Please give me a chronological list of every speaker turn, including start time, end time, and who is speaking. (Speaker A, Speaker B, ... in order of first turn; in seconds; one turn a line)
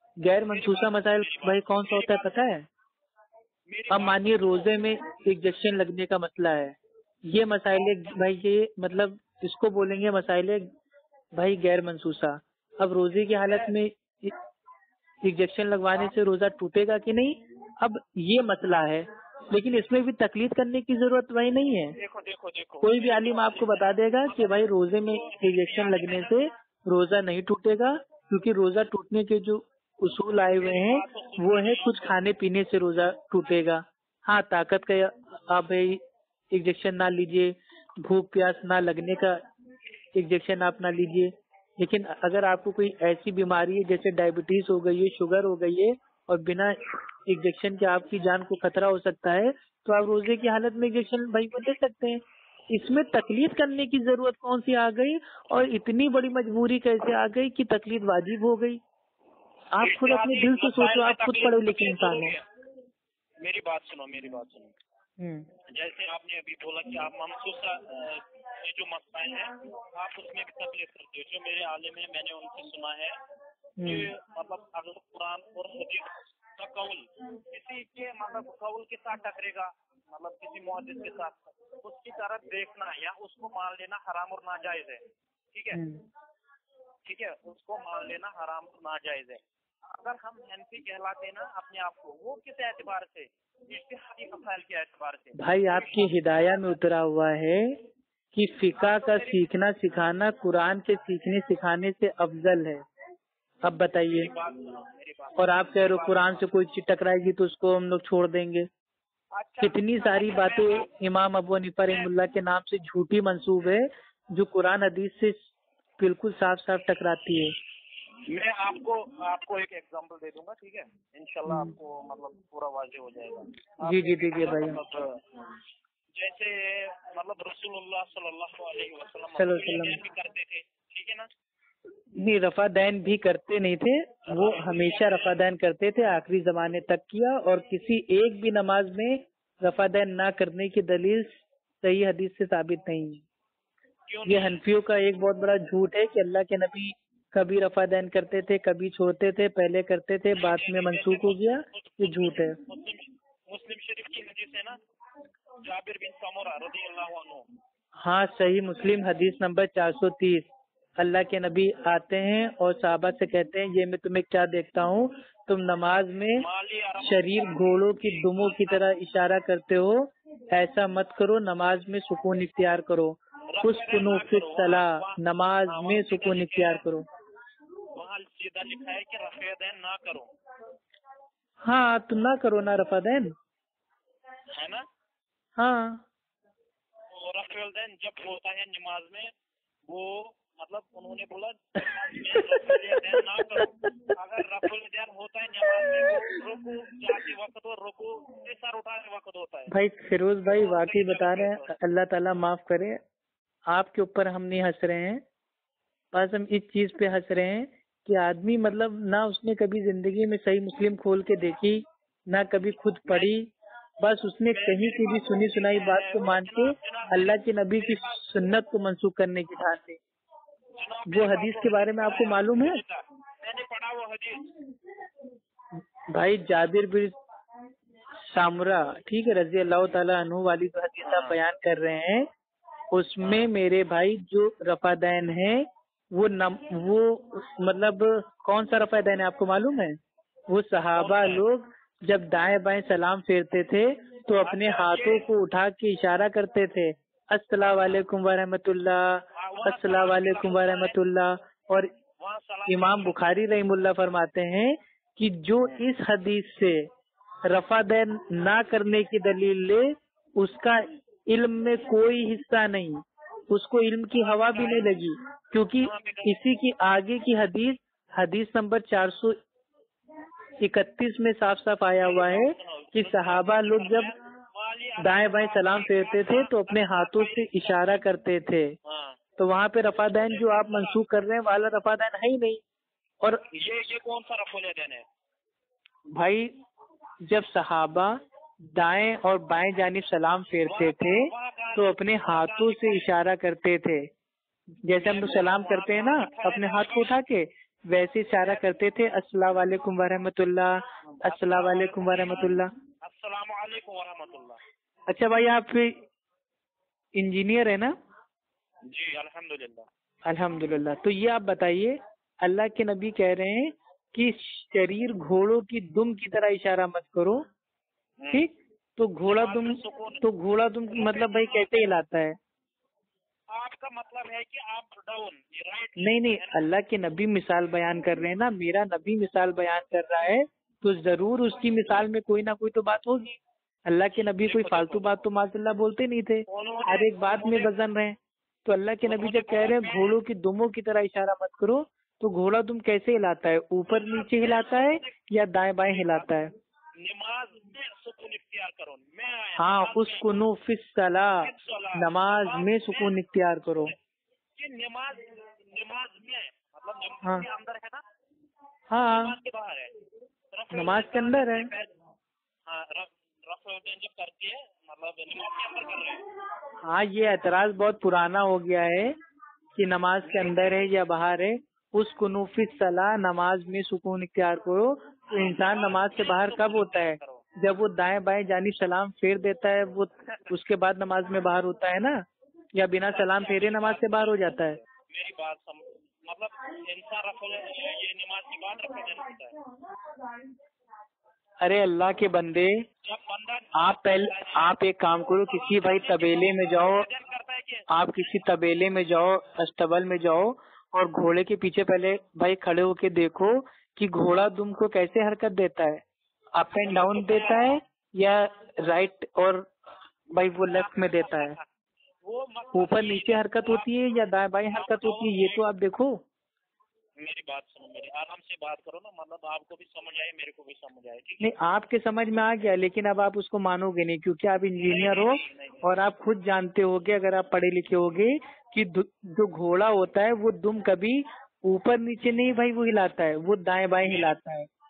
Speaker A: 0.2-2.6
Speaker B: 0.3-2.5
Speaker B: 3.7-4.8
Speaker A: 3.9-10.7
Speaker A: 11.3-14.3
Speaker A: 15.2-21.9
Speaker B: 21.9-26.5
Speaker A: 22.8-39.4
Speaker B: 30.5-32.2
Speaker A: 40.1-58.8
Speaker A: 59.7-62.3
Speaker B: 59.8-62.4
Speaker B: 63.4-64.7
Speaker A: 65.2-65.5
Speaker B: 65.7-73.2
Speaker A: 73.8-74.1
Speaker B: 73.8-85.8
Speaker A: 85.7-86.0
Speaker B: 87.0-96.1
Speaker A: 95.3-97.8
Speaker A: 98.3-102.8
Speaker B: 98.7-99.5
Speaker A: 103.6-104.3
Speaker B: 104.1-106.5
Speaker A: 105.4-108.7
Speaker B: 109.3-110.9
Speaker A: 109.6-115.4
Speaker A: 116.0-117.5
Speaker B: 118.2-125.2
Speaker A: 121.5-121.7
Speaker A: 123.8-124.8
Speaker B: 126.1-131.3
Speaker A: 129.3-130.0
Speaker A: 132.2-143.2
Speaker B: 134.3-135.3
Speaker B: 144.1-144.6
Speaker A: 144.2-152.6
Speaker B: 150.3-154.8
Speaker B: 155.6-157.4
Speaker A: 158.0-160.5
Speaker A: 161.0-166.4
Speaker B: 166.4-168.9
Speaker A: 167.0-177.0
Speaker B: 173.5-176.8
Speaker B: 177.9-180.3
Speaker A: 181.6-183.3
Speaker B: 184.5-184.8
Speaker A: 185.6-186.0
Speaker B: 187.1-189.3
Speaker B: 189.9-199.8
Speaker A: 199.7-203.0
Speaker B: 200.4-201.8
Speaker A: 203.7-205.2
Speaker A: 206.1-220.0
Speaker B: 213.1-213.3
Speaker B: 214.5-218.2
Speaker B: 220.8-224.5
Speaker A: 221.1-222.8
Speaker A: 226.1-227.1
Speaker A: 228.2-232.3
Speaker B: 231.0-231.3
Speaker A: 232.9-251.9
Speaker B: 233.2-233.5
Speaker B: 240.9-241.4
Speaker B: 244.4-245.3
Speaker B: 249.4-251.0
Speaker B: 252.2-253.4
Speaker A: 252.7-256.9
Speaker A: 257.4-269.4
Speaker B: 264.1-264.9
Speaker B: 265.8-266.4
Speaker A: 270.6-274.1
Speaker B: 272.0-278.1
Speaker A: 275.0-278.7
Speaker B: 278.8-279.2
Speaker A: 279.4-282.6
Speaker B: 280.2-281.0
Speaker B: 283.5-285.0
Speaker A: 286.1-286.6
Speaker A: 287.2-294.1
Speaker B: 290.6-293.1
Speaker A: 294.8-302.7
Speaker B: 295.0-297.2
Speaker B: 301.0-304.6
Speaker A: 305.1-306.0
Speaker A: 307.1-307.9
Speaker B: 308.9-309.9
Speaker A: 310.2-317.4
Speaker B: 318.2-318.5
Speaker A: 318.3-322.4
Speaker B: 319.2-320.3
Speaker B: 320.9-321.9
Speaker B: 323.5-326.6
Speaker A: 326.0-346.5
Speaker B: 334.4-335.2
Speaker B: 336.5-337.7
Speaker B: 339.0-340.2
Speaker B: 343.9-345.1
Speaker B: 345.8-346.3
Speaker B: 346.9-350.4
Speaker A: 349.6-353.9
Speaker B: 351.4-353.1
Speaker B: 354.6-358.0
Speaker A: 358.9-359.3
Speaker B: 359.0-359.9
Speaker B: 360.5-361.9
Speaker A: 360.7-361.7
Speaker B: 362.6-366.2
Speaker A: 366.8-369.2
Speaker A: 369.8-384.8
Speaker B: 370.2-370.7
Speaker B: 375.3-377.4
Speaker B: 383.0-389.6
Speaker A: 391.6-392.8
Speaker B: 393.0-394.7
Speaker A: 393.7-397.1
Speaker B: 395.4-398.4
Speaker A: 397.9-406.0
Speaker A: 406.5-409.7
Speaker B: 406.8-407.7
Speaker A: 410.3-411.6
Speaker B: 410.6-411.6
Speaker B: 412.2-415.6
Speaker A: 412.7-416.2
Speaker B: 417.2-421.5
Speaker A: 421.4-434.7
Speaker B: 424.8-425.9
Speaker B: 434.0-434.3